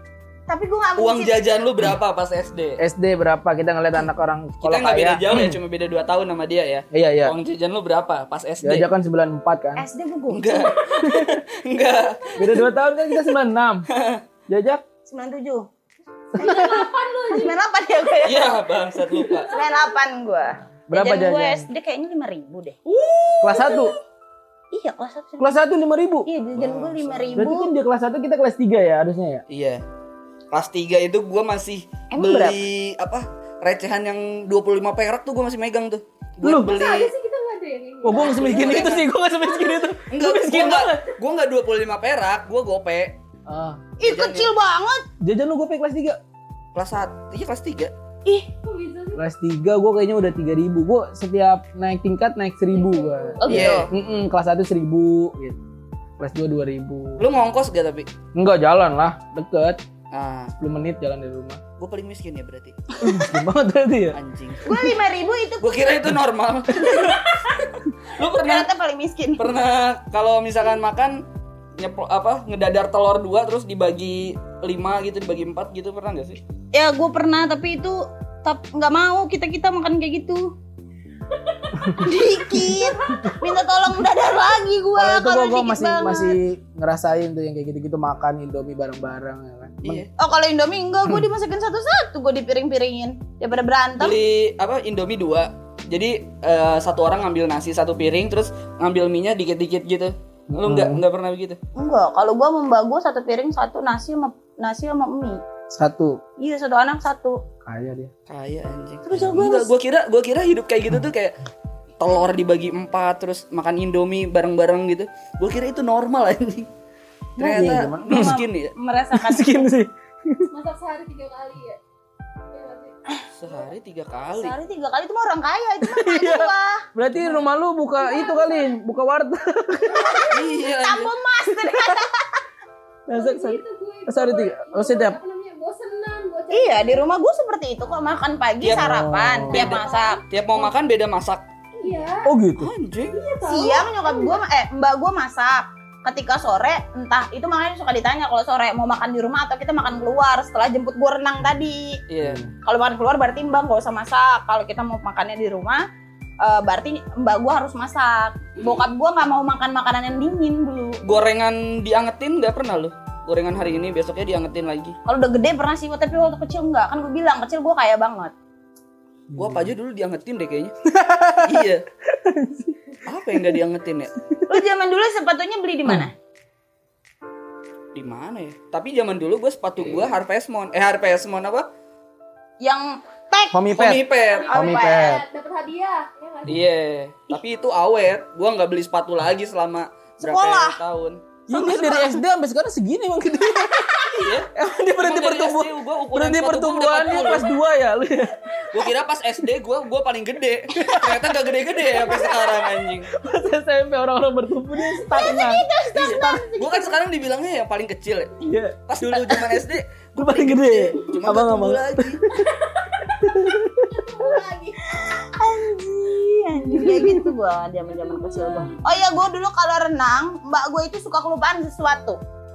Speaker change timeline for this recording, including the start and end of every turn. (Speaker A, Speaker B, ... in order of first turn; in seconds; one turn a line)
Speaker A: 0.5-1.4
Speaker B: 1.0-2.8
Speaker C: 2.8-5.6
Speaker B: 4.6-8.9
Speaker C: 6.9-7.3
Speaker C: 8.6-9.8
Speaker A: 9.8-10.8
Speaker B: 10.3-12.7
Speaker C: 11.0-11.3
Speaker C: 12.4-13.9
Speaker B: 13.9-14.2
Speaker C: 14.5-14.8
Speaker A: 15.1-15.7
Speaker D: 16.3-17.6
Speaker C: 16.4-16.8
Speaker A: 16.4-18.6
Speaker B: 18.2-19.5
Speaker D: 19.2-20.0
Speaker A: 19.5-22.8
Speaker C: 20.9-21.7
Speaker B: 22.9-23.9
Speaker C: 23.4-23.9
Speaker D: 23.6-23.8
Speaker A: 24.7-25.5
Speaker C: 25.4-26.3
Speaker A: 26.3-27.7
Speaker B: 26.5-27.4
Speaker C: 27.4-29.4
Speaker B: 29.5-29.8
Speaker B: 30.5-37.1
Speaker A: 32.1-32.6
Speaker C: 36.4-36.7
Speaker D: 36.6-40.0
Speaker C: 38.0-41.1
Speaker B: 38.1-39.1
Speaker B: 40.1-43.2
Speaker C: 43.5-43.8
Speaker A: 44.0-45.0
Speaker B: 44.0-44.5
Speaker C: 45.2-46.2
Speaker B: 46.7-47.9
Speaker D: 48.5-49.2
Speaker C: 49.2-55.6
Speaker D: 52.7-53.7
Speaker A: 53.4-53.9
Speaker B: 53.5-53.9
Speaker C: 56.2-57.2
Speaker B: 57.2-58.1
Speaker C: 58.4-59.8
Speaker B: 60.1-60.5
Speaker C: 60.6-61.6
Speaker B: 61.8-62.8
Speaker C: 63.0-64.2
Speaker B: 64.1-64.8
Speaker A: 64.6-66.1
Speaker B: 65.6-68.7
Speaker A: 68.2-69.5
Speaker B: 69.4-71.2
Speaker B: 71.8-76.4
Speaker A: 76.7-80.5
Speaker D: 81.5-83.4
Speaker C: 81.8-82.0
Speaker A: 82.0-86.4
Speaker C: 85.0-90.0
Speaker B: 89.8-90.1
Speaker A: 90.2-94.2
Speaker B: 94.0-101.6
Speaker C: 100.5-101.0
Speaker A: 101.8-105.4
Speaker C: 105.7-106.2
Speaker A: 106.4-107.4
Speaker C: 107.7-108.1
Speaker B: 108.3-111.4
Speaker A: 109.0-109.7
Speaker B: 112.0-116.7
Speaker B: 117.4-118.7
Speaker C: 117.4-118.4
Speaker A: 117.5-119.7
Speaker C: 119.1-120.5
Speaker D: 120.5-121.8
Speaker D: 122.5-123.0
Speaker B: 123.4-124.5
Speaker A: 124.3-126.9
Speaker C: 125.8-130.3
Speaker D: 128.0-128.8
Speaker D: 129.9-130.5
Speaker B: 130.3-131.1
Speaker A: 130.7-132.4
Speaker C: 131.5-132.0
Speaker C: 133.1-135.2
Speaker D: 133.1-137.1
Speaker A: 136.5-140.2
Speaker B: 138.6-138.9
Speaker C: 138.7-139.7
Speaker B: 139.5-141.4
Speaker D: 139.5-140.7
Speaker D: 141.8-142.3
Speaker C: 142.2-142.7
Speaker B: 142.6-143.2
Speaker D: 143.1-144.4
Speaker A: 143.4-152.0
Speaker B: 152.1-152.4
Speaker C: 152.2-152.5
Speaker A: 152.6-155.8
Speaker A: 156.4-161.0
Speaker B: 161.0-165.0
Speaker A: 165.1-168.3
Speaker C: 169.3-169.6
Speaker B: 169.3-170.7
Speaker C: 170.9-172.9
Speaker B: 171.4-171.8
Speaker B: 173.1-174.1
Speaker A: 174.5-176.1
Speaker B: 177.9-181.7
Speaker A: 182.6-183.7
Speaker C: 183.5-185.2
Speaker B: 183.7-184.5
Speaker D: 184.2-186.6
Speaker A: 184.5-185.2
Speaker B: 186.5-191.2
Speaker A: 190.2-190.8
Speaker C: 191.5-198.4
Speaker A: 191.5-192.2
Speaker B: 194.2-197.5
Speaker B: 198.7-203.1
Speaker C: 200.7-201.2
Speaker C: 203.1-205.7
Speaker A: 205.1-207.0
Speaker B: 205.9-208.3
Speaker C: 208.4-209.3
Speaker B: 208.9-212.2
Speaker C: 210.2-212.5
Speaker D: 212.4-214.9
Speaker C: 213.1-214.0
Speaker A: 214.9-222.2
Speaker D: 216.7-217.3
Speaker D: 217.9-219.0